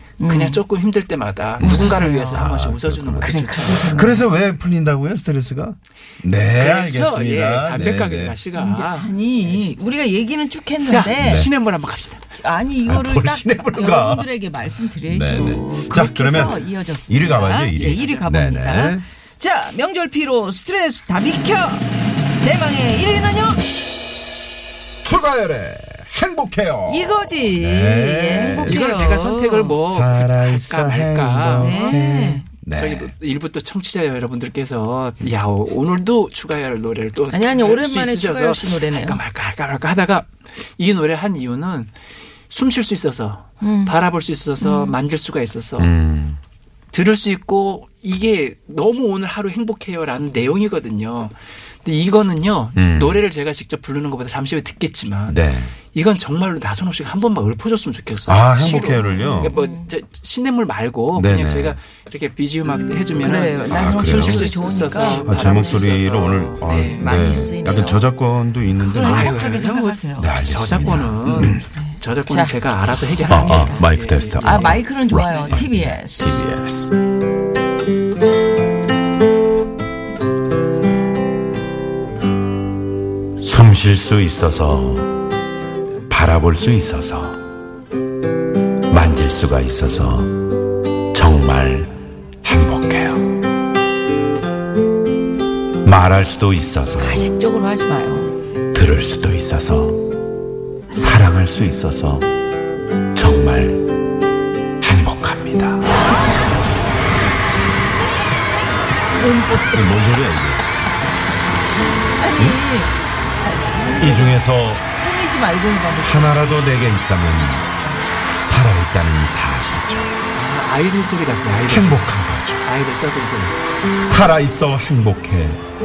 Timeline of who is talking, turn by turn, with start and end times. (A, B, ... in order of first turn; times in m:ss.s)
0:00.2-0:00.6 A
0:00.2-0:04.2 B
0:01.6-0:02.5 A
0:01.6-0:08.4 C
0:03.2-0:04.3 A
0:06.5-0:09.9 B
0:08.5-0:11.5 A
0:10.8-0:12.2 B
0:11.2-0:11.5 C
0:12.3-0:23.7 A
0:12.9-0:14.3 C
0:14.9-0:19.0 C
0:17.7-0:18.3 B
0:25.0-0:28.8 C
0:26.9-0:29.8 A
0:28.6-0:32.0 B
0:29.9-0:33.1 C
0:31.5-0:32.5 A
0:32.7-0:41.9 B
0:37.3-0:39.2 A
0:42.5-0:45.9 B
0:43.6-0:44.0 A
0:44.6-0:45.0 A
0:45.8-0:46.4 C
0:46.9-0:55.4 B
0:52.8-0:53.2 C
0:55.3-0:55.8 C
0:55.9-1:07.2 B
0:58.3-0:59.6 C
0:58.8-0:59.9 A
1:01.2-1:01.8 C
1:03.2-1:05.9 A
1:03.6-1:09.4 C
1:06.9-1:08.1 A
1:08.8-1:10.4 A
1:09.0-1:15.7 B
1:10.2-1:11.7 C
1:11.3-1:12.6 A
1:13.1-1:13.9 A
1:13.3-1:17.0 C
1:14.4-1:16.5 A
1:23.4-1:25.1 C
1:26.1-1:27.4 C
1:28.9-1:30.4 C
1:31.1-1:31.9 C
1:32.4-1:33.3 C
1:35.8-1:37.3 C
1:37.0-1:38.3 A
1:38.7-1:40.0 C
1:40.9-1:42.3 C
1:43.2-1:43.9 C
1:44.8-1:45.9 C
1:49.2-1:50.0 A
1:49.7-1:50.6 C
1:52.0-1:52.9 A
1:52.4-1:52.6 C
1:53.4-1:56.4 A
1:54.0-1:54.9 C
1:56.0-1:57.8 C
1:58.4-2:00.2 C
2:00.3-2:03.6 B
2:01.7-2:02.6 C
2:04.0-2:05.6 C